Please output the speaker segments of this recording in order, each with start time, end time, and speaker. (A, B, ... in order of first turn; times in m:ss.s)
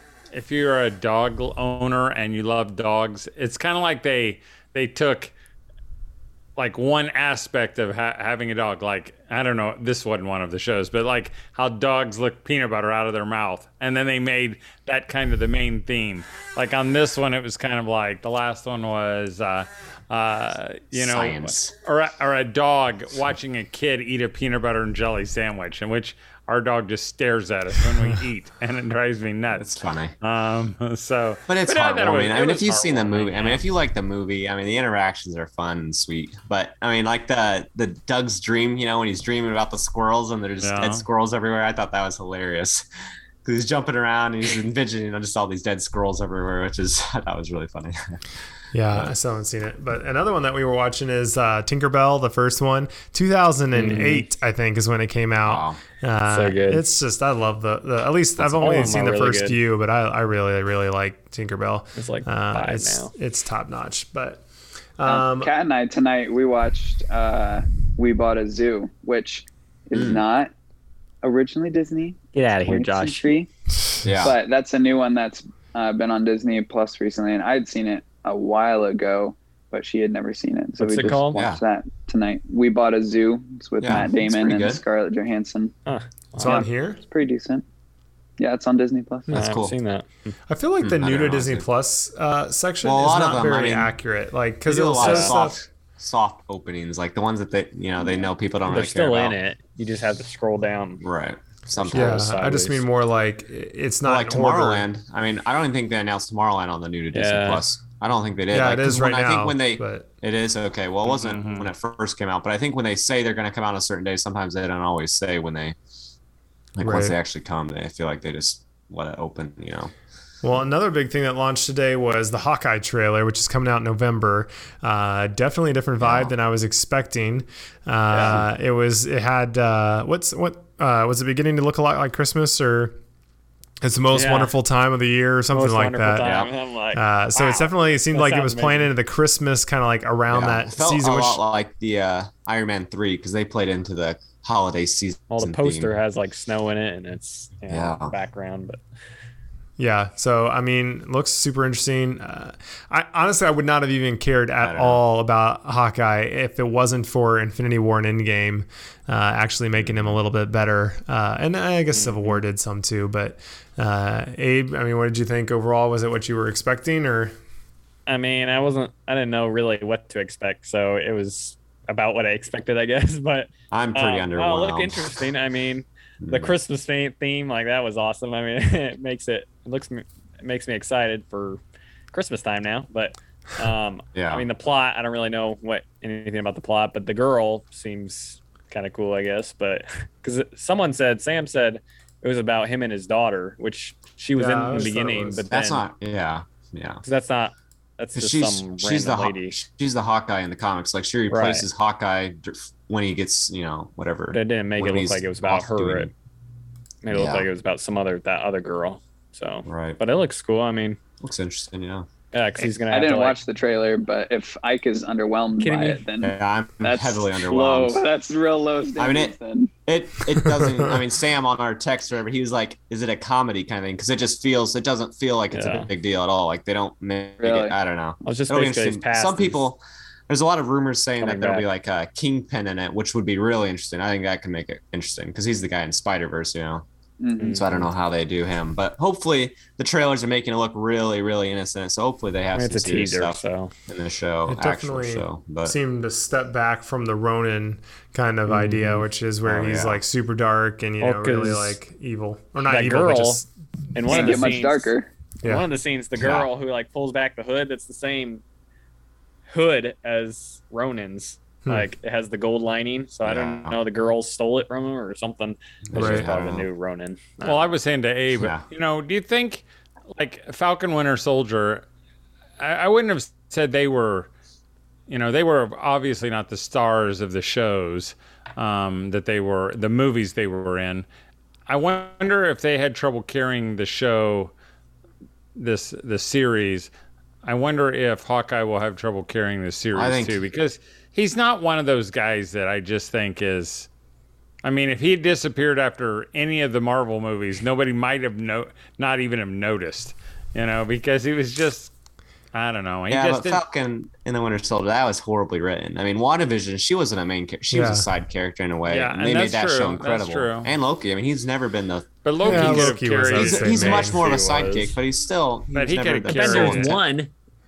0:00.3-0:05.3 A
0:06.6-0:33.6 A
0:20.9-0:21.7 B
0:29.6-0:30.1 B
0:31.5-0:42.8 B
0:40.6-0:41.0 A
0:43.4-0:48.2 B
0:48.7-1:04.4 C
0:53.7-0:54.2 D
0:55.4-0:55.8 B
0:56.3-0:56.8 D
0:58.4-0:59.6 D
1:02.0-1:03.1 D
1:05.0-1:05.5 C
1:05.0-1:10.5 E
1:09.9-1:10.2 B
1:11.2-1:13.5 E
1:12.3-1:13.3 D
1:14.0-1:14.4 B
1:14.2-1:25.7 E
1:20.8-1:21.4 D
1:21.3-1:21.6 B
1:23.8-1:24.8 B
1:25.8-1:26.6 D
1:26.4-1:27.0 C
1:26.4-1:27.6 E
1:28.4-1:29.3 E
1:29.3-1:30.3 D
1:29.4-1:29.7 B
1:30.5-1:35.6 C
1:30.8-1:31.6 B
1:32.8-1:33.9 B
1:34.6-1:39.4 B
1:35.0-1:35.3 D
1:38.0-1:38.3 E
1:38.7-1:41.0 D
1:41.0-1:42.2 B
1:41.8-1:42.8 D
1:41.9-1:44.8 C
1:44.0-1:55.8 B
1:47.1-1:47.6 D
1:48.5-1:50.1 C
1:51.1-1:51.7 A
1:56.8-1:59.9 B
1:56.8-1:57.2 C
2:00.4-2:13.0 C
2:06.0-2:06.3 B
2:08.1-2:08.4 D
2:13.8-2:21.4 C
2:14.1-2:14.5 D
2:15.5-2:18.9 D
2:16.2-2:16.5 B
2:20.3-2:25.9 B
2:25.3-2:28.8 D
2:27.7-2:28.1 B
2:29.8-2:47.3 C
2:34.6-2:35.0 B
2:39.8-2:40.2 B
2:41.9-2:42.4 D
2:48.1-3:01.6 D
2:53.7-2:55.2 B
2:56.2-2:56.5 B
3:02.1-3:15.8 D
3:04.1-3:04.4 B
3:14.3-3:15.4 C
3:15.5-3:17.0 B
3:17.0-3:19.6 D
3:18.2-3:26.1 B
3:21.3-3:21.7 D
3:24.3-3:26.1 D
3:27.0-3:31.0 D
3:27.1-3:27.5 B
3:29.6-3:30.0 B
3:31.2-3:32.1 B
3:32.3-3:33.4 D
3:32.9-3:39.7 E
3:35.6-3:36.0 D
3:36.2-3:38.0 B
3:39.0-3:56.8 B
3:40.3-3:40.9 C
3:45.5-3:45.9 D
3:47.4-3:47.8 E
3:48.2-3:49.6 D
3:51.2-3:51.6 D
3:57.2-3:57.6 E
3:57.4-3:57.9 D
3:57.4-4:05.7 B
4:02.5-4:03.7 D
4:04.5-4:13.5 C
4:08.5-4:09.0 D
4:09.4-4:10.0 B
4:11.0-4:11.8 D
4:12.6-4:14.9 D
4:14.0-4:14.5 C
4:14.1-4:15.1 E
4:15.4-4:18.4 D
4:16.2-4:16.5 B
4:19.5-4:27.7 D
4:23.2-4:23.8 B
4:25.9-4:26.6 B
4:25.9-4:26.3 C
4:27.4-4:31.8 A
4:28.4-4:28.6 B
4:32.6-4:34.3 A
4:35.1-4:41.0 A
4:41.7-4:44.5 A
4:45.6-4:46.9 A
4:47.4-4:53.9 A
4:49.9-4:50.4 B
4:54.6-5:01.9 A
5:02.5-5:03.6 A
5:03.1-5:16.9 B
5:07.7-5:08.1 C
5:08.9-5:10.7 A
5:12.2-5:14.0 A
5:12.4-5:14.2 C
5:13.4-5:15.0 D
5:15.7-5:17.0 A
5:16.3-5:17.3 D